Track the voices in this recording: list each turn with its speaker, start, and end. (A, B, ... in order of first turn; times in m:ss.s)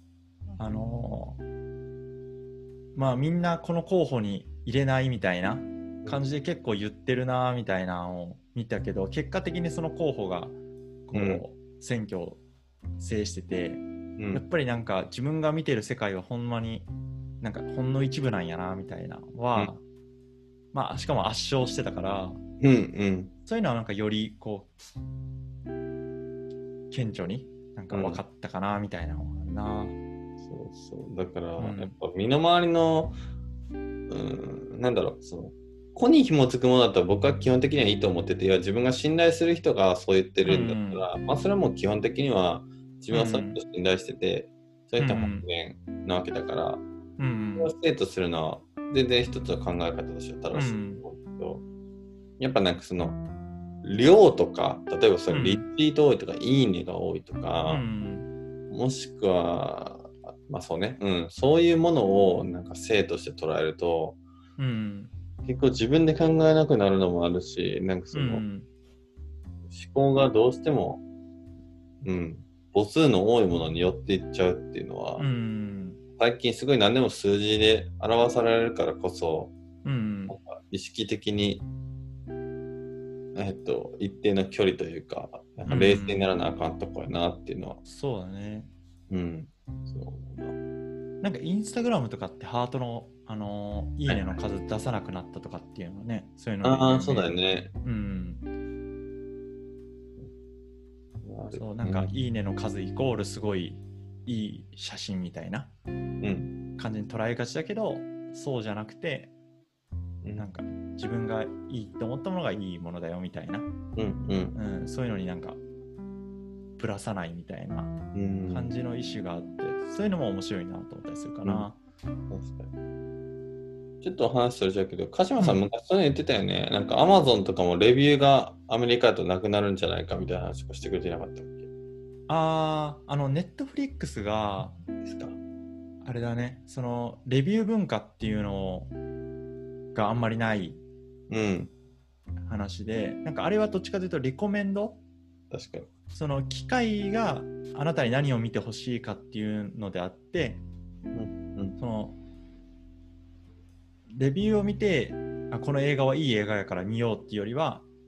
0:00.6-0:01.4 A
0:03.0-0:10.6 A
0:11.1-0:12.4 A
0:11.1-0:11.4 B
0:13.0-0:16.9 A
0:14.2-0:14.4 B
0:17.4-0:19.8 A
0:20.7-0:22.4 A
0:22.6-0:23.3 B
0:23.5-0:24.7 A
0:26.9-0:30.0 A
0:27.9-0:28.2 B
0:30.4-0:33.2 B
0:31.6-0:32.0 A
0:34.1-0:46.8 B
0:40.4-0:41.0 A
0:43.1-0:43.6 A
0:45.0-0:45.5 A
0:47.2-0:47.7 A
0:47.6-0:51.6 B
0:50.5-0:51.0 A
0:52.4-0:53.2 B
0:53.8-0:57.8 B
0:55.3-0:55.7 A
0:57.7-0:58.3 A
0:58.7-1:04.2 B
1:04.6-1:05.1 A
1:05.4-1:08.4 B
1:08.1-1:08.7 A
1:09.7-1:11.0 B
1:12.0-1:15.3 B
1:15.2-1:16.0 A
1:16.2-1:19.5 B
1:19.8-1:20.4 A
1:20.3-1:21.7 B
1:23.4-1:27.8 B
1:25.7-1:26.3 A
1:27.8-1:28.7 A
1:29.1-1:30.6 B
1:31.2-1:38.5 A
1:34.1-1:34.4 B
1:36.6-1:37.7 B
1:41.2-1:42.1 B
1:41.5-1:45.7 A
1:46.2-1:46.6 B
1:46.8-1:49.3 A
1:50.2-1:50.5 B
1:50.4-1:53.7 A
1:54.0-1:54.6 B
1:54.6-1:55.6 A
1:56.8-1:58.0 A
1:58.1-1:58.7 B
1:58.5-2:01.8 A
2:02.3-2:02.7 B
2:04.0-2:11.7 B
2:12.3-2:14.8 A
2:15.0-2:15.4 B
2:16.0-2:18.9 A
2:19.9-2:20.8 A
2:21.3-2:21.7 B
2:22.5-2:25.0 A
2:25.5-2:25.9 B
2:26.1-2:30.6 A
2:31.1-2:31.8 B
2:31.8-2:32.2 A
2:34.1-2:37.9 A